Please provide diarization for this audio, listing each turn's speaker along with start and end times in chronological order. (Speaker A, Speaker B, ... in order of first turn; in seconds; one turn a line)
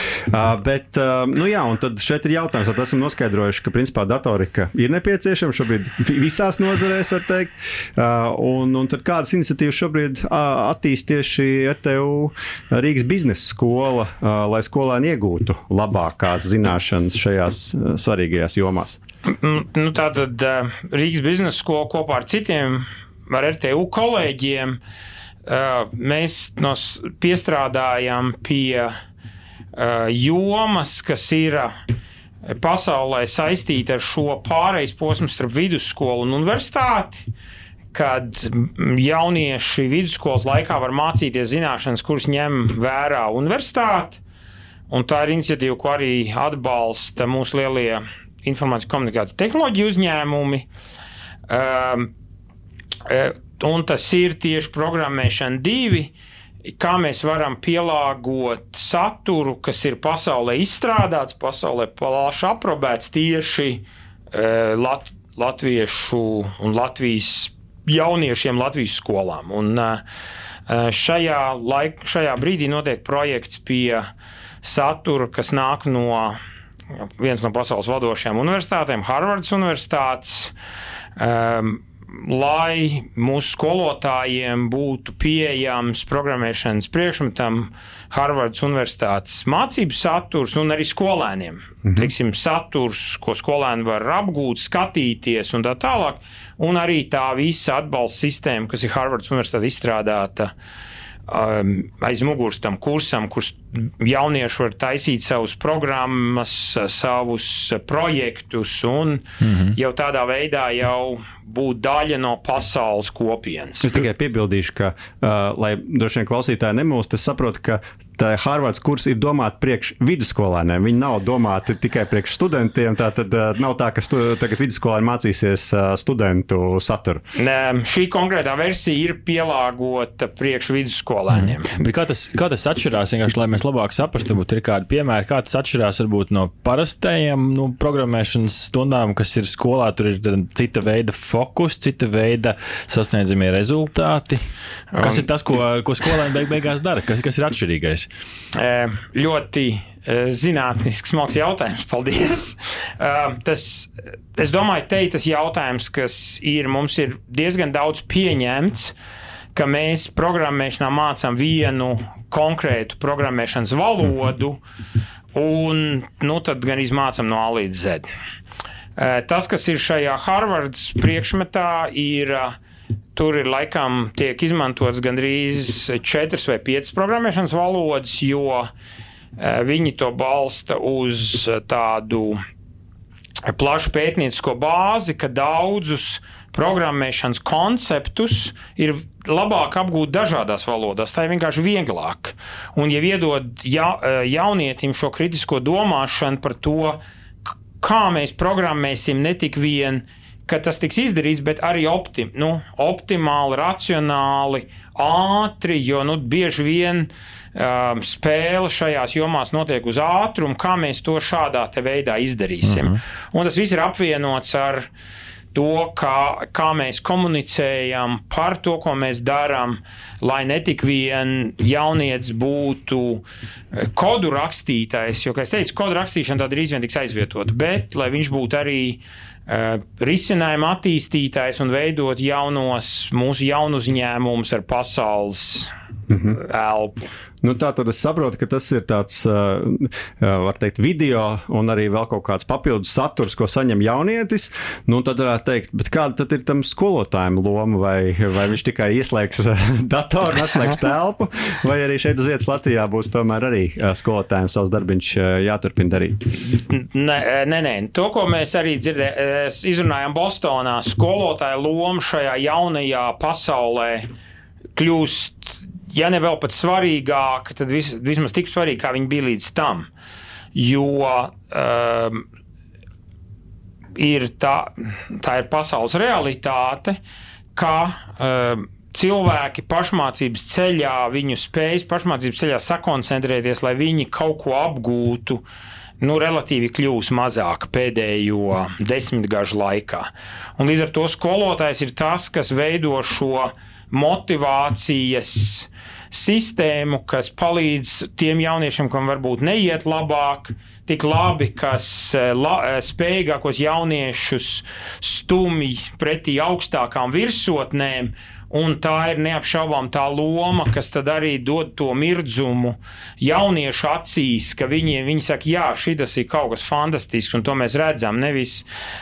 Speaker A: 0.3-19.0
Speaker B: 19.3-24.8
Speaker B: 25.5-28.9
Speaker B: 29.8-31.7
Speaker B: 32.5-37.2
Speaker B: 37.9-44.2
Speaker B: 44.9-50.7
Speaker B: 51.5-52.1
Speaker B: 53.1-56.1
Speaker B: 56.7-70.0
Speaker B: 70.7-74.0
Speaker B: 74.6-76.4
Speaker B: 77.0-80.5
Speaker B: 81.2-100.5
Speaker B: 101.3-114.0
Speaker C: 109.4-109.7
Speaker A: 113.8-127.2
Speaker B: 127.4-131.7
Speaker C: 131.3-144.4
Speaker B: 144.9-145.2
Speaker C: 145.0-148.1
Speaker B: 148.5-158.9
Speaker B: 159.6-164.6
Speaker B: 165.3-168.1
Speaker B: 169.0-172.5
Speaker B: 173.2-178.7
Speaker B: 179.4-182.4
Speaker B: 183.5-197.0
Speaker B: 197.8-214.9
Speaker C: 212.6-212.9
Speaker B: 215.5-235.7
Speaker A: 236.1-236.4
Speaker B: 236.3-237.0
Speaker A: 237.4-256.2
Speaker B: 256.4-264.1
Speaker B: 264.8-269.9
Speaker B: 270.5-272.2
Speaker B: 274.0-277.0
Speaker B: 277.6-285.4
Speaker B: 286.0-318.7